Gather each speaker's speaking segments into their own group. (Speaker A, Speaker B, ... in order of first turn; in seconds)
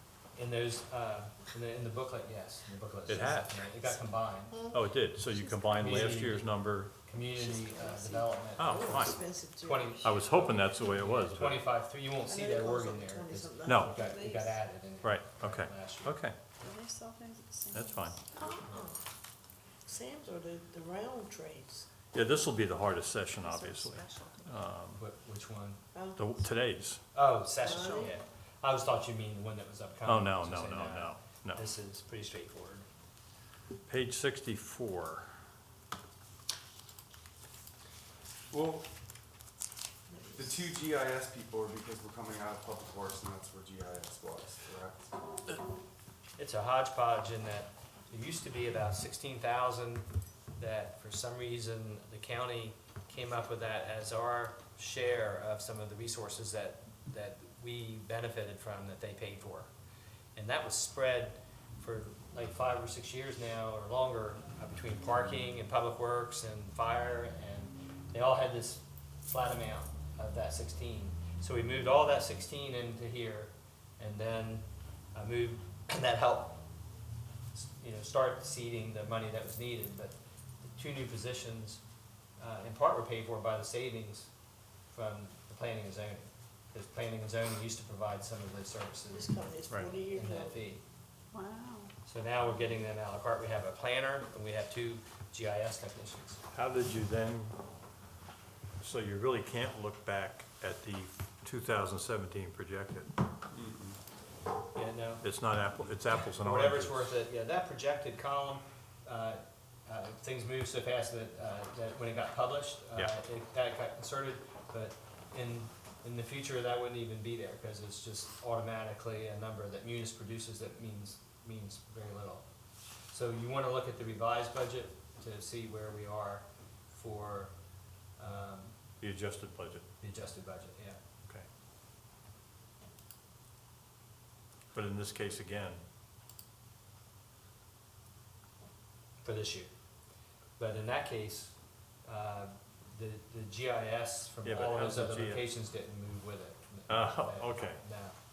Speaker A: 0.3-4.7, 5.8-6.5, 7.0-16.7, 18.4-18.9, 25.0-25.8, 27.1-32.9, 46.4-50.1, 50.6-59.7, 60.4-76.6, 77.5-81.8, 82.4-84.3, 84.9-89.4, 90.0-90.8, 92.0-96.4, 104.7-105.2, 106.4-122.5, 123.1-127.5, 128.2-128.8, 130.0-131.0, 139.2-139.7, 140.6-148.2
Speaker B: 3.1-3.7, 4.7-6.9, 8.6-9.3, 10.0-11.7, 13.6-14.0, 15.0-16.4, 17.7-18.2, 22.1-25.0, 26.1-27.0, 30.0-31.6, 33.9-35.3, 96.5-97.5, 98.8-103.1, 105.2-107.1, 129.0-129.8, 134.7-135.8, 144.4-145.4, 146.9-147.8
Speaker C: 7.3-10.1, 12.3-14.6, 18.3-19.0, 19.8-21.9, 25.9-26.2, 27.6-28.1, 89.1-90.6
Speaker D: 16.6-18.3, 23.4-24.5, 91.3-91.9
Speaker E: 38.5-38.9, 40.3-45.1, 103.5-104.0